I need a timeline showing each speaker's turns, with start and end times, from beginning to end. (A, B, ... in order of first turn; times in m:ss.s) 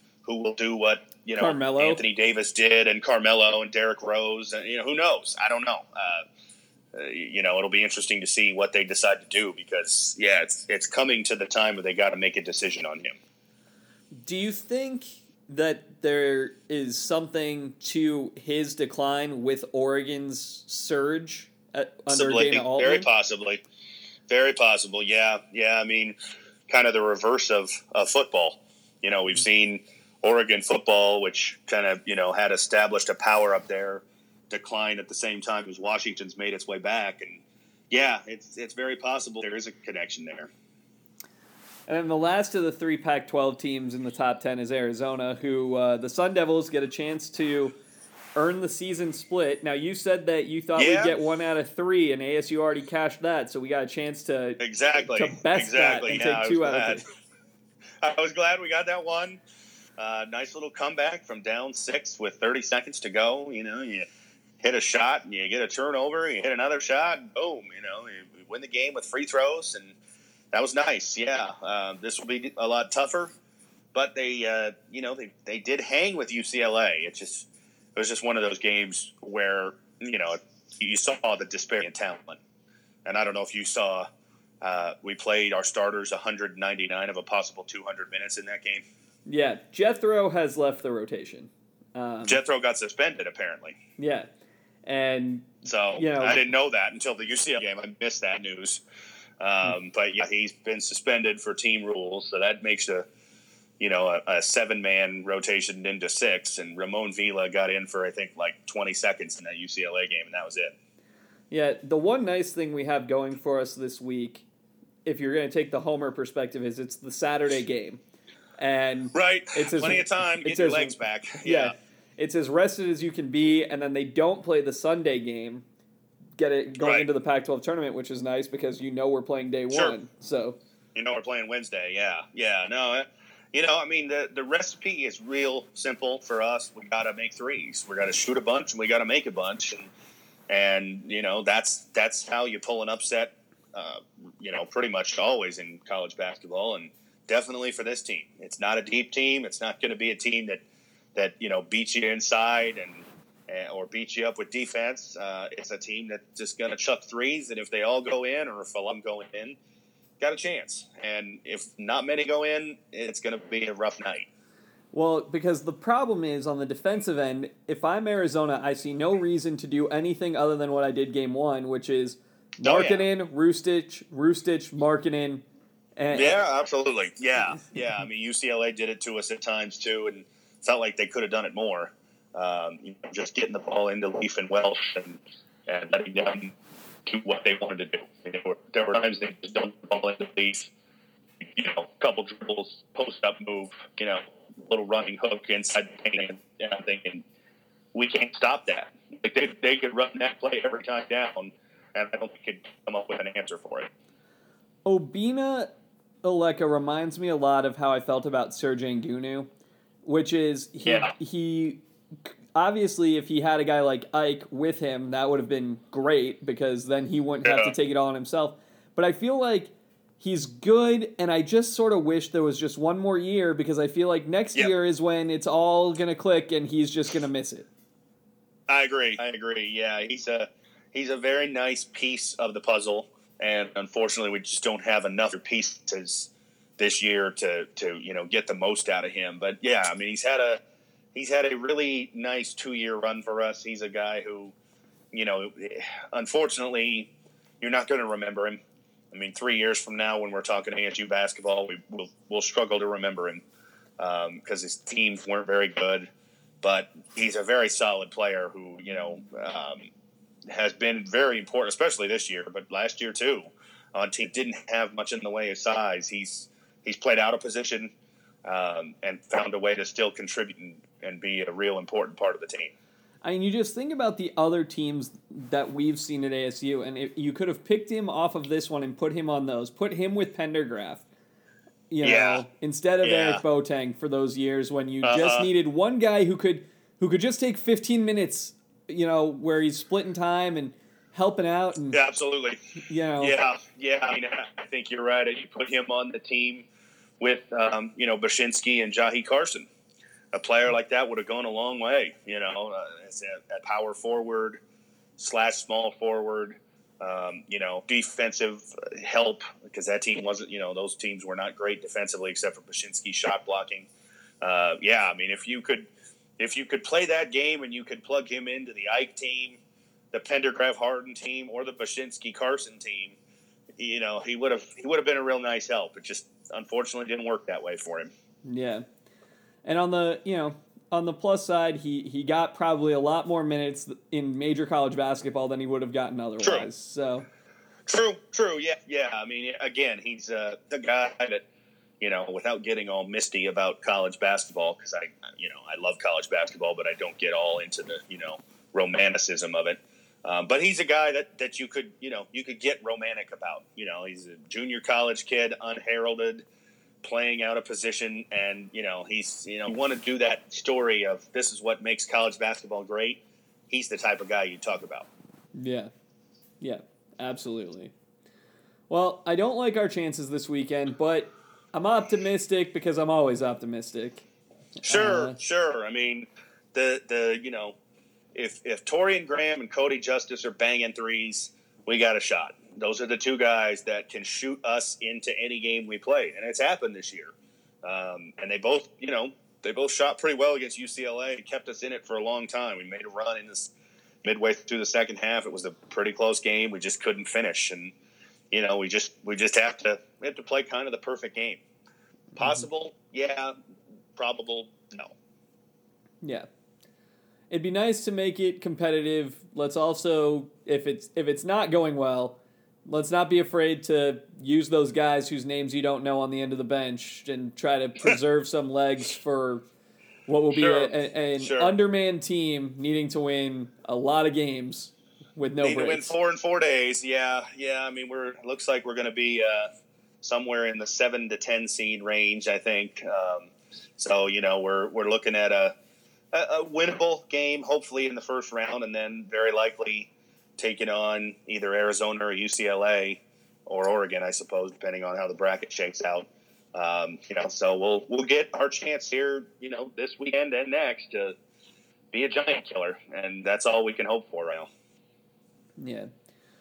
0:00.2-0:06.2 A
0:01.4-0:02.0 B
0:06.9-0:13.2 A
0:14.2-0:23.1 B
0:22.1-0:23.6 A
0:24.3-0:26.1 A
0:26.7-0:40.5 A
0:41.9-0:47.8 B
0:48.4-0:57.0 B
0:50.8-0:51.1 A
0:54.6-0:57.0 A
0:58.0-0:59.4 A
1:00.0-1:04.0 A
1:04.6-1:10.0 A
1:10.5-1:13.3 A
1:13.9-1:22.4 A
1:23.0-1:24.0 A
1:24.6-1:28.8 A
1:29.2-1:32.4 B
1:32.3-1:33.8 A
1:34.0-1:34.3 B
1:34.8-1:36.4 B
1:35.6-1:38.8 A
1:39.4-1:43.0 A
1:43.8-1:50.7 A
1:51.5-1:54.4 B
1:55.0-1:58.0 B
1:58.6-2:05.6 B
1:59.1-2:01.7 A
2:06.4-2:10.6 B
2:06.8-2:07.0 A
2:10.9-2:19.9 A
2:20.5-2:30.6 A
2:31.1-2:39.6 A
2:40.2-2:44.3 A
2:44.9-2:55.4 B
2:52.6-2:53.0 A
2:56.0-2:56.4 B
2:56.1-3:06.5 A
3:07.0-3:10.7 A
3:11.4-3:17.2 A
3:17.9-3:23.9 A
3:24.8-3:25.7 B
3:26.2-3:29.5 B
3:30.0-3:31.8 B
3:30.8-3:31.1 A
3:32.6-3:47.7 B
3:37.4-3:37.7 A
3:48.7-4:00.6 A
4:01.1-4:04.5 A
4:05.1-4:08.6 A
4:09.1-4:13.4 A
4:14.0-4:16.1 A
4:16.6-4:19.9 A
4:20.5-4:27.9 A
4:28.4-4:32.7 A
4:33.2-4:41.0 B
4:41.9-4:52.0 B
4:42.0-4:42.4 A
4:43.0-4:43.4 A
4:45.0-4:45.5 A
4:51.9-4:52.6 A
4:52.9-4:53.4 B
4:53.2-4:56.6 A
4:57.2-4:59.7 A
5:00.3-5:04.6 A
5:05.2-5:13.9 A
5:14.4-5:19.6 A
5:20.1-5:23.2 A
5:23.8-5:28.1 A
5:28.4-5:28.8 B
5:29.6-5:37.3 B
5:36.4-5:36.7 A
5:37.9-5:41.4 A
5:42.0-5:56.4 A
5:57.0-6:05.1 A
6:05.5-6:05.9 B
6:06.6-6:07.9 B
6:08.9-6:14.2 B
6:14.8-6:15.4 B
6:14.8-6:17.7 A
6:18.3-6:33.7 A
6:34.2-6:37.9 A
6:38.5-6:41.6 A
6:42.4-6:42.7 B
6:42.4-6:43.5 A
6:44.2-6:45.1 A
6:47.5-6:59.6 B
7:00.3-7:06.1 B
7:00.5-7:01.7 A
7:05.6-7:09.7 A
7:10.2-7:15.7 A
7:16.3-7:31.4 A
7:32.1-7:34.7 A
7:35.8-7:36.1 B